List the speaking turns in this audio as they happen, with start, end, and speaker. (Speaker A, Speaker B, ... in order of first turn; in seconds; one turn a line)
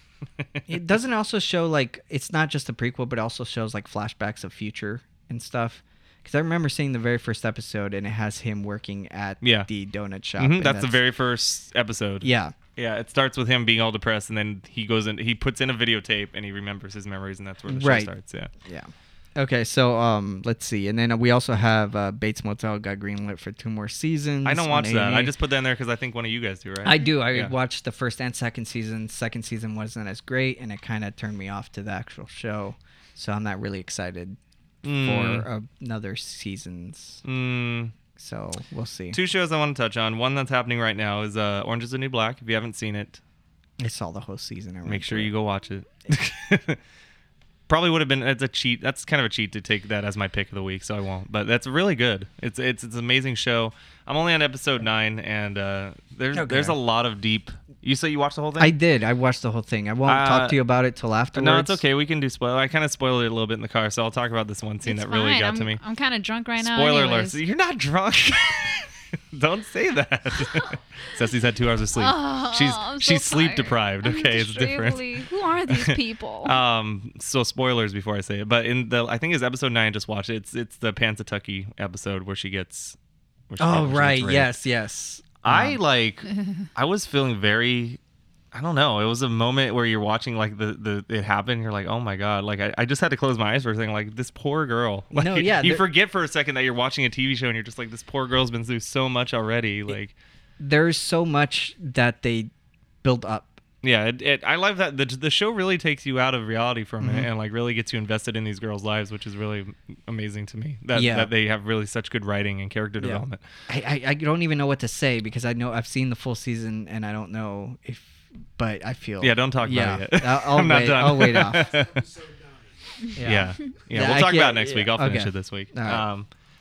Speaker A: 0.7-11.0
Speaker B: 9.4-9.7
Speaker B: 10.4-18.5
Speaker A: 12.2-12.5
Speaker A: 17.7-25.3
Speaker B: 24.4-27.5
Speaker A: 26.8-34.4
Speaker B: 34.8-35.5
Speaker A: 34.9-37.2
Speaker B: 37.2-37.9
Speaker A: 38.1-39.2
Speaker B: 39.1-43.2
Speaker A: 43.8-45.3
Speaker B: 44.9-46.8
Speaker B: 47.7-58.7
Speaker A: 56.3-56.8
Speaker A: 58.6-61.8
Speaker B: 60.0-60.6
Speaker B: 61.3-65.8
Speaker C: 64.8-67.4
Speaker B: 66.6-75.1
Speaker C: 72.0-76.6
Speaker B: 75.7-83.0
Speaker B: 83.5-84.5
Speaker A: 83.6-85.8
Speaker B: 85.4-88.0
Speaker B: 88.5-100.1
Speaker A: 95.1-95.8
Speaker A: 100.6-102.5
Speaker A: 103.0-103.6
Speaker B: 103.8-113.4
Speaker A: 107.0-107.3
Speaker A: 110.9-111.3
Speaker A: 113.0-121.7
Speaker B: 119.2-122.1
Speaker A: 123.1-126.0
Speaker B: 123.2-126.3